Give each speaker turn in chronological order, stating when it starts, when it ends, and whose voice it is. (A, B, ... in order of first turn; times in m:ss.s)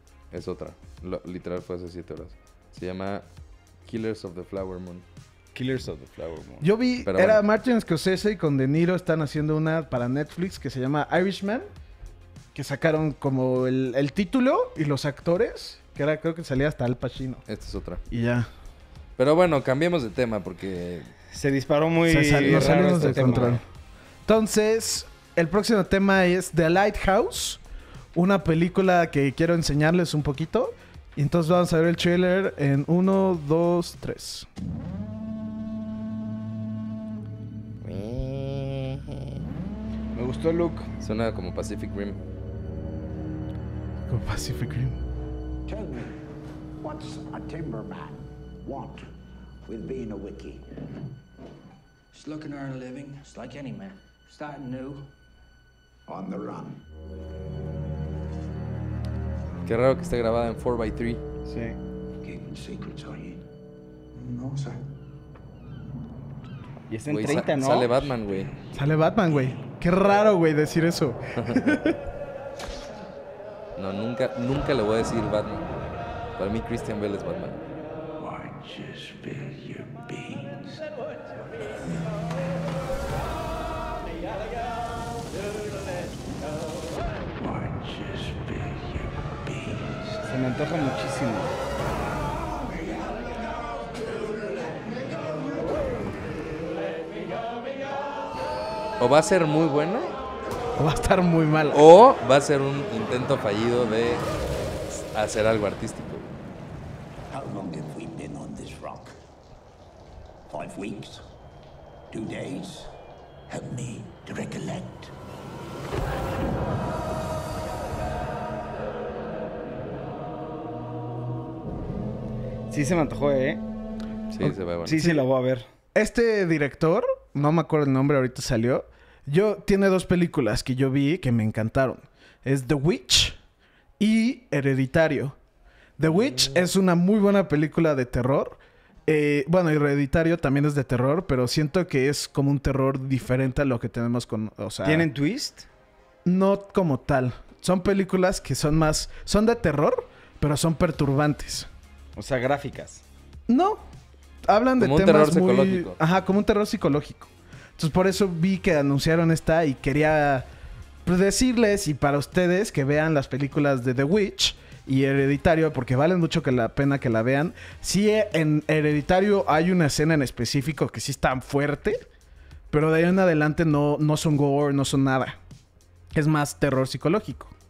0:00.3-0:03.2 A
0:03.8-0:05.0 A
0:05.5-0:06.7 B
0:06.6-0:11.7 C
0:07.0-0:07.4 A
0:12.5-0:17.4 C
0:17.5-0:18.0 A
0:18.1-0:18.5 C
0:19.2-0:21.1 A
0:21.3-0:23.6 B
0:22.1-0:23.6 C
0:22.4-0:23.6 A
0:24.2-0:27.6 C
0:28.1-0:34.5 C
0:37.8-0:39.0 A
0:40.1-0:40.9 B
0:41.0-0:42.2 A
0:44.1-0:45.0 C
0:45.6-0:46.2 D
0:46.8-0:49.1 D
0:49.6-0:50.6 D
0:52.1-0:55.1 E
0:56.1-0:56.8 D
0:59.6-1:01.2 A
1:01.5-1:01.8 C
1:02.2-1:03.4 D
1:04.2-1:04.7 E
1:06.9-1:08.1 B
1:07.1-1:08.5 A
1:08.7-1:12.0 C
1:11.4-1:11.7 A
1:13.8-1:17.6 A
1:20.1-1:20.5 A
1:30.2-1:31.6 B
1:39.0-1:40.1 A
1:40.8-1:41.8 C
1:41.7-1:44.2 A
1:44.9-1:46.3 A
1:47.3-1:49.1 D
1:50.5-1:51.2 D
1:52.1-1:52.9 D
1:53.5-1:55.1 D
2:02.7-2:03.6 B
2:04.3-2:05.0 A
2:04.4-2:05.2 C
2:04.8-2:05.6 B
2:05.9-2:13.4 C
2:14.0-2:15.4 C
2:16.0-2:25.1 C
2:24.8-2:25.6 B
2:26.2-2:31.7 C
2:32.2-2:33.0 B
2:33.5-2:33.8 C
2:34.4-2:40.5 C
2:34.8-2:36.0 A
2:41.0-2:52.0 C
2:52.7-2:55.4 C
2:56.1-2:57.5 C